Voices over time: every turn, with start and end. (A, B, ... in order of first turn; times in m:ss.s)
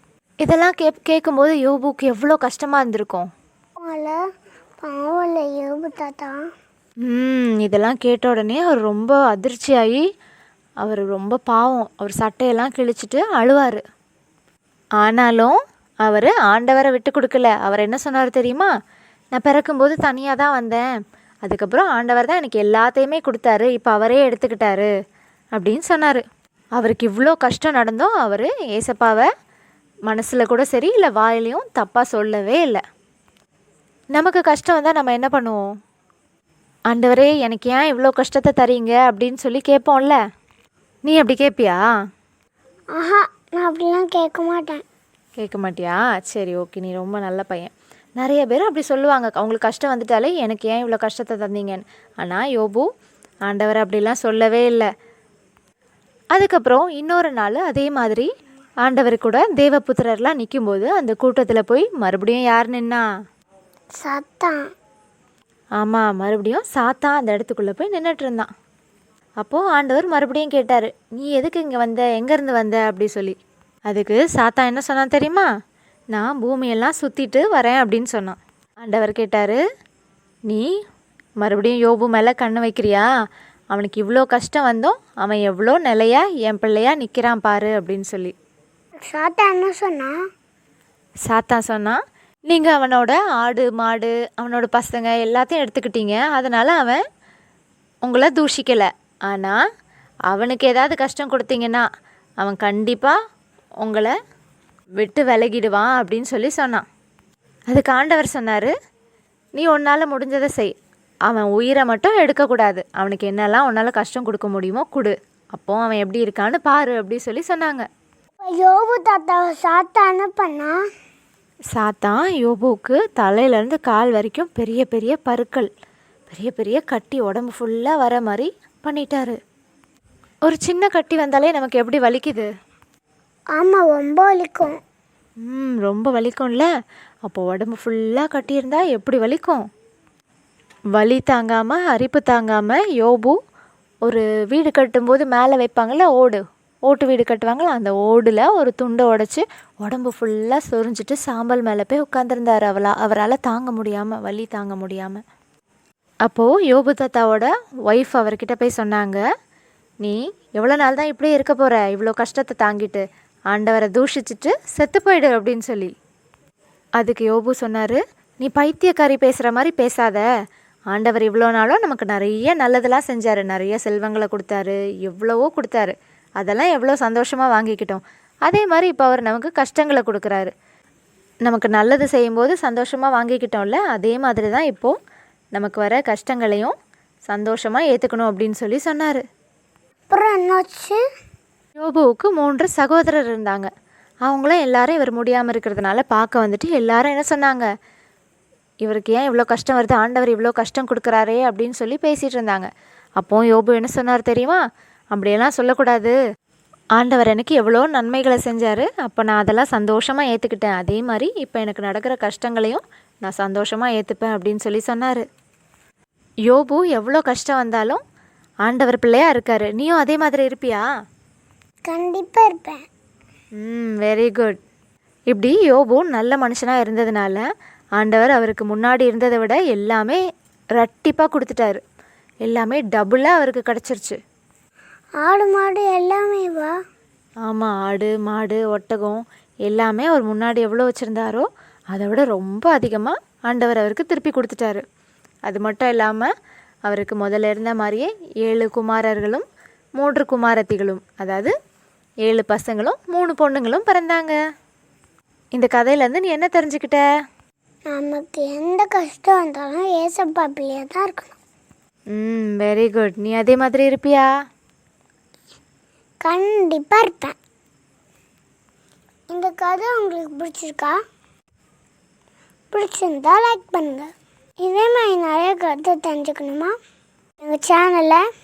0:00.4-0:03.3 A
0:03.8-0:04.2 B
0:04.8-0:06.4 B
0:07.0-0:10.0 A
0:10.8-0:13.8 A
0:15.0-0:18.7 A
0:19.3-0:20.9 A
0:21.4-0:24.9 A
0:25.5-0:26.2 A
0:26.8-0:29.3 A
0:30.1-0:32.8 A
0:34.1-0:35.6 A
0:36.9-0:40.2 A
0:41.0-0:41.8 A
0:43.0-0:44.8 B
0:45.4-0:52.8 A
0:53.5-0:54.9 A
0:56.3-0:58.3 A
0:58.8-1:03.0 A
1:04.0-1:04.6 B
1:05.8-1:08.5 A
1:09.4-1:13.4 A
1:13.9-1:15.5 A
1:16.1-1:19.6 A
1:21.4-1:23.1 A
1:23.7-1:28.3 A
1:29.0-1:30.1 B
1:31.2-1:37.0 A
1:38.0-1:39.6 A
1:40.3-1:41.8 A
1:42.4-1:43.2 A
1:43.8-1:44.1 A
1:45.0-1:46.8 A
1:47.7-1:48.7 A
1:49.6-1:50.7 A
1:51.3-1:57.8 A
1:58.4-2:00.7 B
2:01.7-2:05.7 A
2:06.3-2:09.4 A
2:10.4-2:12.5 A
2:13.6-2:14.8 B
2:15.4-2:16.7 A
2:17.2-2:19.6 A
2:21.0-2:23.4 A
2:24.0-2:35.2 A
2:36.2-2:39.2 A
2:40.0-2:45.9 A
2:47.0-2:50.3 A
2:50.9-3:00.5 A
3:01.4-3:04.9 A
3:05.5-3:06.7 A
3:07.3-3:09.2 A
3:10.1-3:11.0 B
3:11.8-3:13.7 A
3:14.2-3:17.7 A
3:18.8-3:24.6 A
3:25.1-3:26.2 A
3:27.0-3:35.2 A
3:36.5-3:38.0 A
3:38.6-3:40.8 A
3:41.9-3:42.8 B
3:43.6-3:44.6 A
3:45.3-3:47.4 A
3:48.0-3:50.2 A
3:50.8-3:51.8 A
3:52.4-3:54.2 A
3:55.2-3:56.7 B
3:57.4-4:04.8 A
4:05.5-4:06.3 A
4:06.9-4:09.4 A
4:10.0-4:11.5 A
4:12.2-4:14.4 A
4:15.5-4:17.0 A
4:17.9-4:21.4 B
4:22.1-4:24.3 A
4:26.2-4:27.3 B
4:29.3-4:31.0 B
4:32.7-4:36.7 B
4:37.4-4:38.2 B